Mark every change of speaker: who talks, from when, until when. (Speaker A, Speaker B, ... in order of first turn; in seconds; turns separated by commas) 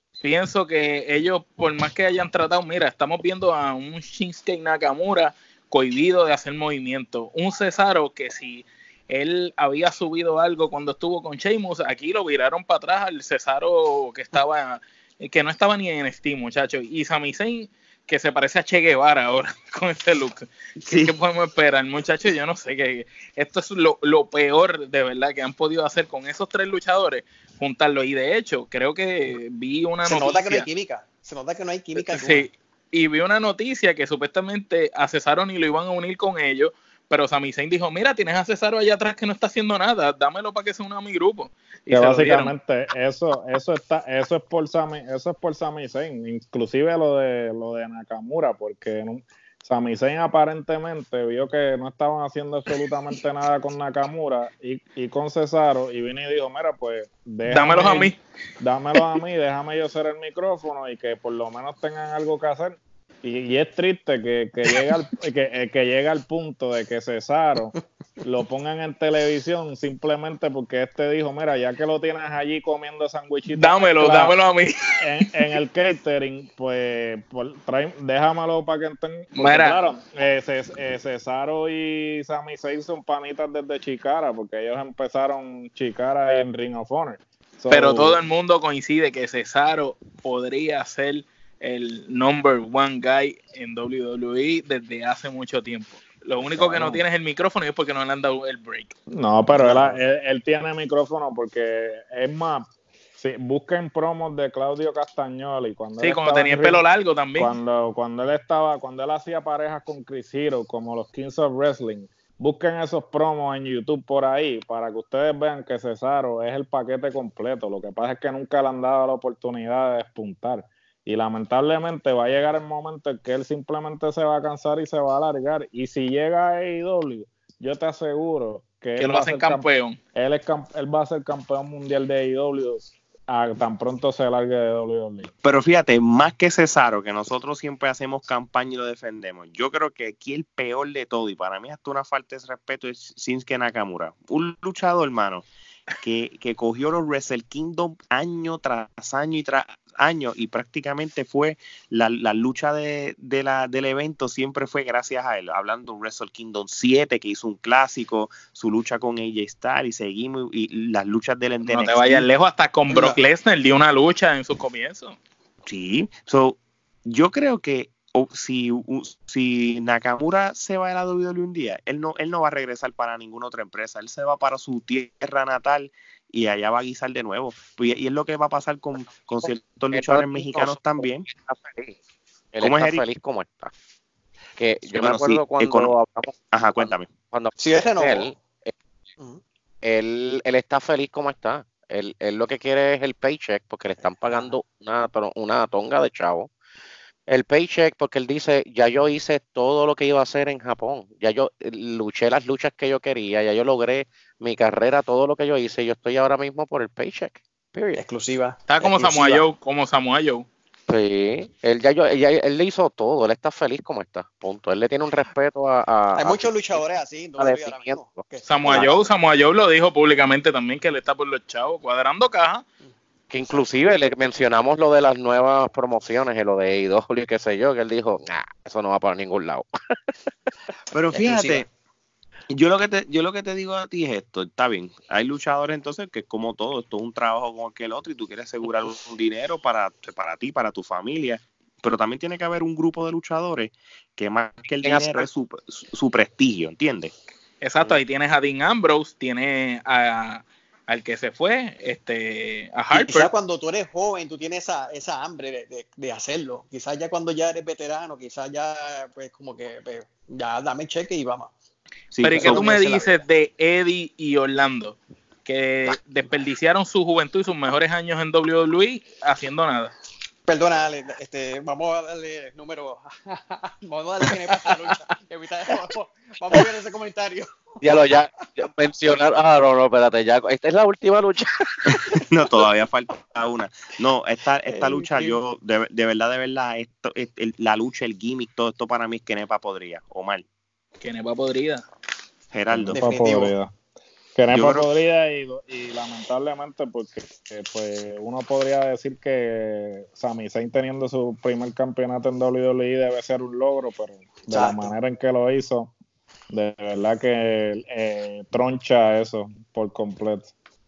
Speaker A: 0.2-30.7, Speaker B: 20.8-21.1, Speaker C: 30.1-32.5, Speaker A: 32.0-42.5, Speaker D: 41.9-74.3, Speaker A: 57.5-58.2, Speaker A: 73.6-75.0, Speaker D: 75.0-88.2, Speaker A: 79.3-79.8, Speaker A: 87.7-98.9, Speaker D: 96.6-97.0, Speaker D: 99.1-106.8, Speaker C: 99.5-100.0, Speaker A: 106.0-107.6, Speaker D: 107.4-135.3, Speaker A: 129.0-130.0, Speaker B: 135.4-162.3, Speaker A: 161.6-165.2, Speaker C: 162.9-163.2, Speaker B: 165.7-181.3, Speaker E: 179.9-182.0, Speaker E: 182.5-183.7, Speaker B: 182.6-183.0, Speaker E: 184.6-188.7, Speaker B: 184.9-185.9, Speaker B: 186.5-187.1, Speaker C: 187.6-188.3, Speaker E: 189.8-196.5, Speaker C: 194.3-194.5, Speaker E: 197.3-208.0, Speaker C: 207.9-209.4, Speaker A: 208.7-210.5, Speaker E: 210.9-216.8, Speaker C: 216.2-219.0, Speaker E: 217.4-218.9, Speaker A: 218.5-222.6, Speaker E: 223.3-229.7, Speaker B: 230.9-231.7, Speaker E: 231.2-231.6, Speaker B: 232.5-247.1, Speaker E: 244.8-245.3, Speaker A: 247.6-253.3, Speaker C: 252.9-261.5, Speaker B: 262.1-262.7, Speaker A: 262.2-269.9, Speaker C: 262.2-263.2, Speaker C: 270.5-278.1, Speaker E: 277.8-282.2, Speaker B: 281.9-290.5, Speaker C: 284.7-285.4, Speaker A: 291.0-291.9, Speaker B: 292.5-293.0, Speaker D: 292.7-293.7, Speaker C: 292.9-293.5, Speaker D: 294.4-305.9, Speaker B: 294.5-294.9, Speaker C: 304.5-304.9, Speaker D: 306.5-310.5